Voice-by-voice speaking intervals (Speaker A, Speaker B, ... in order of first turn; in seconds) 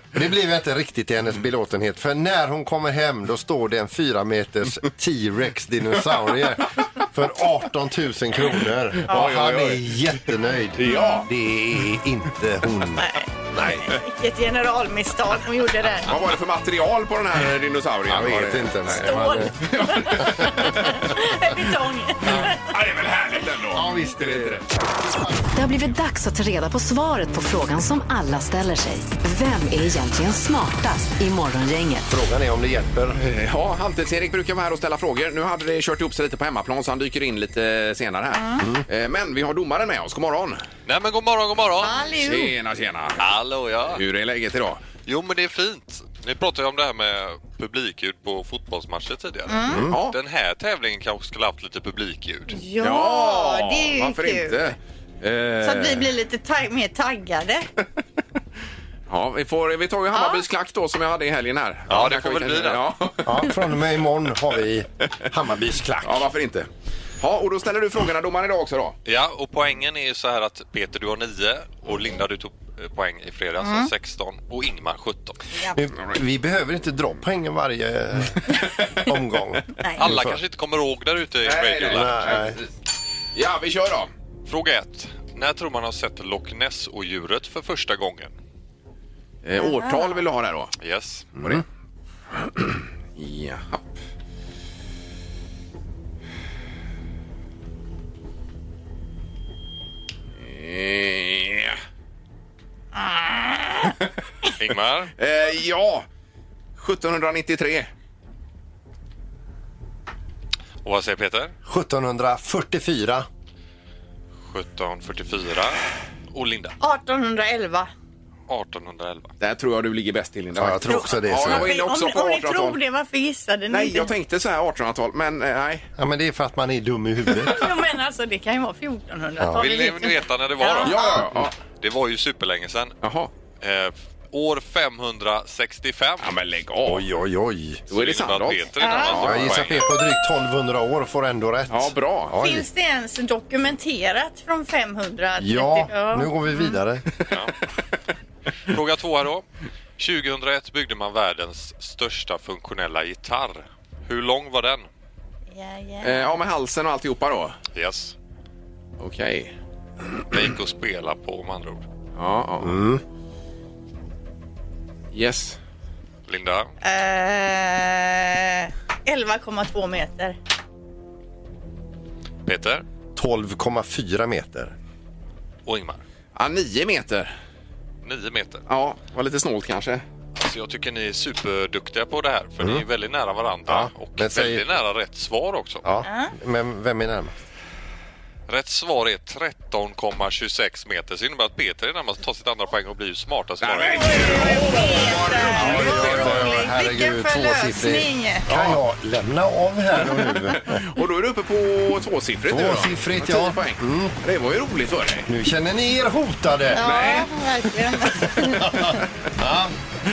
Speaker A: 0.1-13.8, 18.1-19.6, 23.7-24.6, 32.1-33.2, 63.2-66.3, 75.7-80.4, 81.9-82.6, 111.7-113.3, 120.5-121.7, 126.0-127.7, 129.4-129.7, 136.8-137.8, 139.2-142.7, 145.4-147.1, 162.6-163.0, 173.2-174.8, 183.7-184.7, 185.8-187.3, 195.3-200.7, 202.5-204.2, 205.3-206.8, 208.4-209.7
Speaker B: 9.1-9.8, 10.8-11.3, 13.6-13.9, 16.0-21.1, 22.3-24.6, 33.1-40.6, 42.2-43.2, 43.9-44.8, 49.9-50.2, 52.8-56.1, 59.1-63.5, 66.0-66.7, 67.2-69.0, 78.6-79.1, 81.4-82.7, 83.3-84.1, 89.4-90.7, 92.4-93.8, 100.4-101.8, 105.2-106.1, 106.8-107.9, 119.4-122.8, 123.7-125.9, 130.8-131.5, 133.0-133.3, 136.2-137.1, 137.9-139.8, 141.7-142.3, 156.0-157.6, 159.0-159.5, 162.2-162.8, 165.1-165.6, 176.4-177.3, 178.7-180.0, 193.6-196.5, 198.5-198.8, 200.1-205.3, 206.8-207.3
Speaker C: 10.9-11.2, 13.0-16.1, 18.9-22.6, 38.4-38.6, 41.8-42.5, 49.5-49.8, 52.5-54.5, 55.6-57.7, 60.1-60.4, 73.6-73.9, 79.8-80.1, 89.6-90.2, 103.1-103.9, 116.8-117.9, 120.9-124.1, 127.5-131.3, 138.8-139.2, 142.4-146.8, 155.5-156.4, 166.8-170.4, 186.0-186.3, 193.9-198.5, 206.7-208.9
Speaker D: 25.6-32.1
Speaker E: 40.9-42.0, 43.2-44.0, 45.0-52.6, 61.9-62.8, 69.1-75.4, 80.0-82.4, 84.5-88.3, 90.8-91.3, 104.6-105.1, 110.8-111.5, 114.5-116.8, 118.5-119.3, 129.5-132.9, 133.6-136.3, 137.9-139.9, 148.7-149.4, 150.0-154.9, 157.7-158.2, 160.3-161.8, 166.3-166.7, 172.5-172.8, 175.7-176.0, 178.0-178.6, 180.4-185.8, 188.5-194.4